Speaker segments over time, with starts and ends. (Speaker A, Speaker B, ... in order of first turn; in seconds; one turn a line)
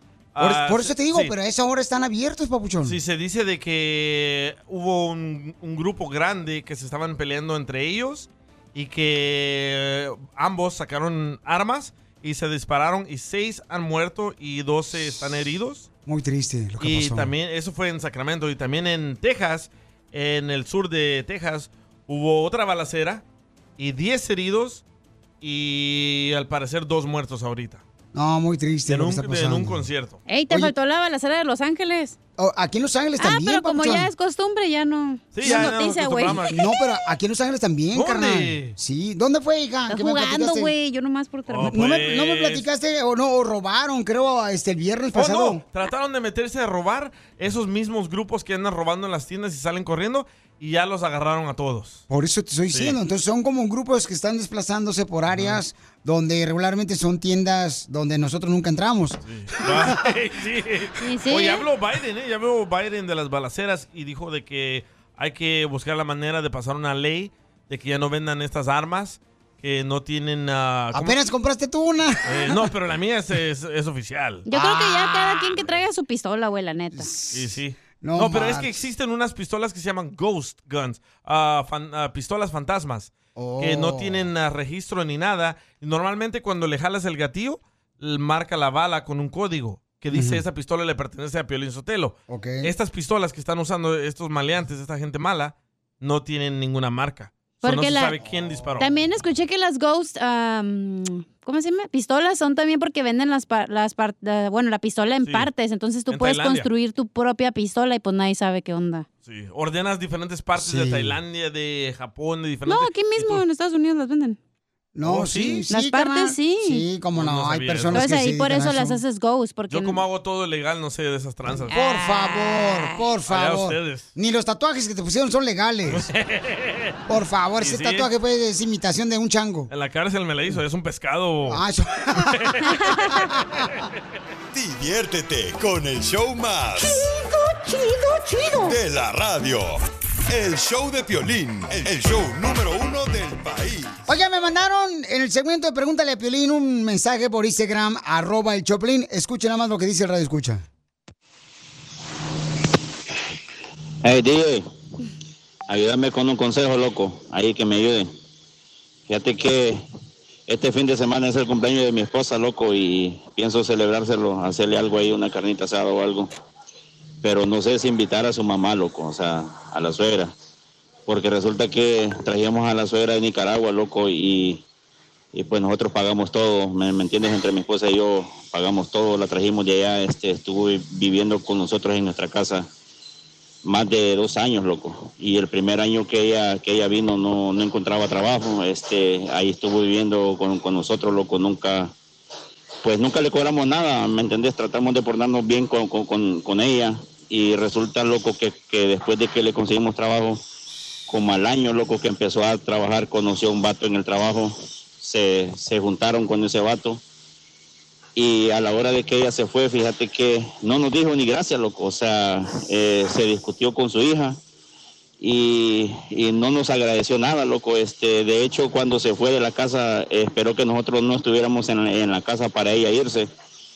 Speaker A: 0.3-1.3
Speaker B: 0.4-3.0
Speaker A: 2.8-15.9
Speaker B: 16.1-17.3
Speaker A: 16.8-23.2
Speaker A: 23.8-24.8
Speaker A: 25.4-27.8
Speaker B: 28.1-29.9
Speaker A: 28.9-30.2
Speaker C: 30.3-32.1
Speaker B: 32.4-34.1
Speaker C: 33.2-36.4
Speaker A: 35.3-36.6
Speaker B: 35.4-35.8
Speaker B: 36.4-40.7
Speaker A: 37.9-38.7
Speaker C: 39.9-41.8
Speaker A: 41.5-42.6
Speaker B: 41.6-45.6
Speaker A: 45.1-52.0
Speaker B: 52.1-60.0
Speaker A: 52.7-53.0
Speaker A: 55.3-55.6
Speaker A: 59.2-71.2
Speaker C: 61.0-61.6
Speaker B: 70.9-72.6
Speaker A: 72.2-74.5
Speaker C: 74.5-77.1
Speaker B: 74.5-75.5
Speaker B: 76.9-78.9
Speaker A: 77.3-98.9
Speaker B: 83.3-84.3
Speaker B: 90.1-90.4
Speaker B: 92.3-92.7
Speaker C: 97.6-98.2
Speaker C: 98.8-109.0
Speaker A: 105.2-105.5
Speaker A: 106.1-106.7
Speaker A: 109.2-113.4
Speaker B: 110.5-111.2
Speaker C: 112.7-114.4
Speaker B: 114.9-119.0
Speaker A: 115.0-115.6
Speaker C: 115.7-116.8
Speaker A: 117.1-118.0
Speaker C: 117.9-120.0
Speaker A: 119.7-121.7
Speaker B: 121.7-126.1
Speaker C: 121.7-123.0
Speaker A: 123.3-124.1
Speaker A: 125.9-126.9
Speaker B: 127.1-129.7
Speaker A: 127.6-128.1
Speaker A: 129.7-131.6
Speaker B: 131.5-132.5
Speaker B: 133.1-133.7
Speaker D: 134.5-137.1
Speaker D: 138.6-144.0
Speaker B: 144.1-150.6
Speaker E: 154.0-154.7
Speaker E: 155.7-158.1
Speaker E: 159.1-159.8
Speaker E: 160.5-166.3
Speaker E: 167.2-170.3
Speaker E: 171.1-174.6
Speaker E: 175.3-182.7
Speaker E: 183.6-191.9
Speaker E: 192.8-200.4
Speaker E: 201.1-207.0
Speaker E: 208.2-214.4
Speaker E: 215.2-223.3